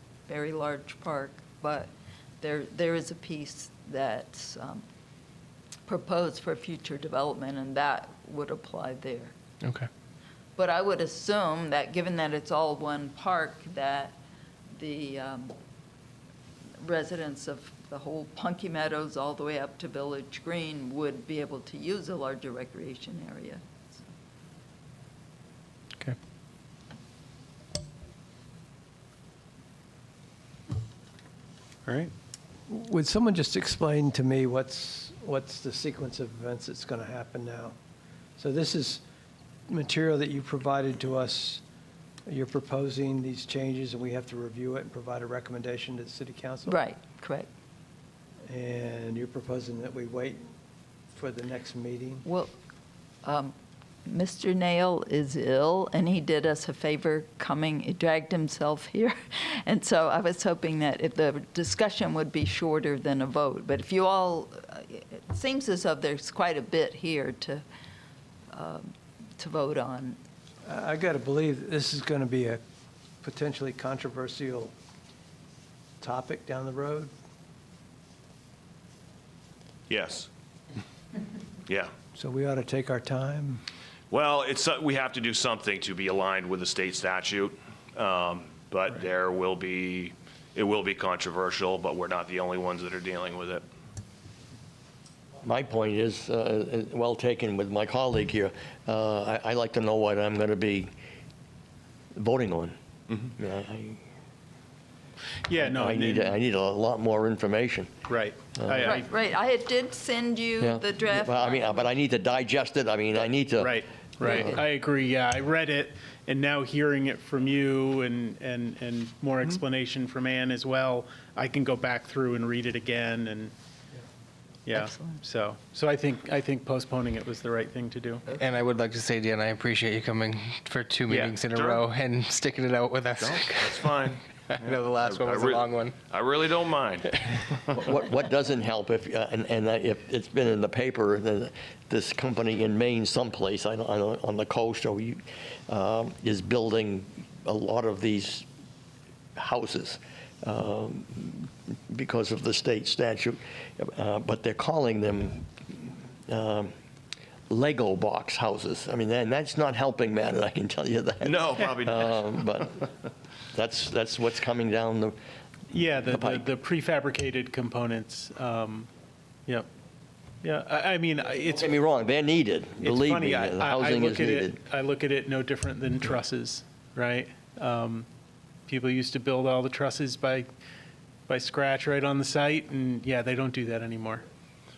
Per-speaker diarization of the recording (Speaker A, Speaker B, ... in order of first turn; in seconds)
Speaker A: 0.3-4.8, 5.9-9.3, 10.6-14.2, 14.8-15.6, 16.8-24.0, 46.7-47.5, 52.2-52.5, 53.2-53.5, 54.1-67.6, 68.5-70.2, 108.8-111.8, 114.2-114.6, 124.7-125.2
Speaker B: 9.6-9.9, 128.4-133.9, 134.5-136.0
Speaker C: 31.9-32.1, 105.5-106.4, 108.1-109.1, 113.6-123.5, 124.7-128.2, 131.1-131.4, 165.7-168.9, 170.4-171.7, 172.8-178.1, 178.7-180.5, 181.3-184.2
Speaker D: 32.7-37.8, 38.4-39.0, 39.7-41.6, 42.3-46.8, 48.5-50.4, 51.1-52.2, 70.7-72.6, 73.2-74.7, 76.0-77.1, 82.2-83.6
Speaker E: 79.9-80.3, 84.1-93.6, 131.4-131.9, 133.2-137.8, 161.2-162.6
Speaker F: 95.4-100.9, 102.2-102.8, 103.4-104.0, 105.6-107.9, 108.6-109.0, 110.6-114.6, 137.7-148.5, 149.4-155.5, 156.3-156.7, 157.5-162.8, 163.5-165.2, 166.0-166.4, 171.4-174.6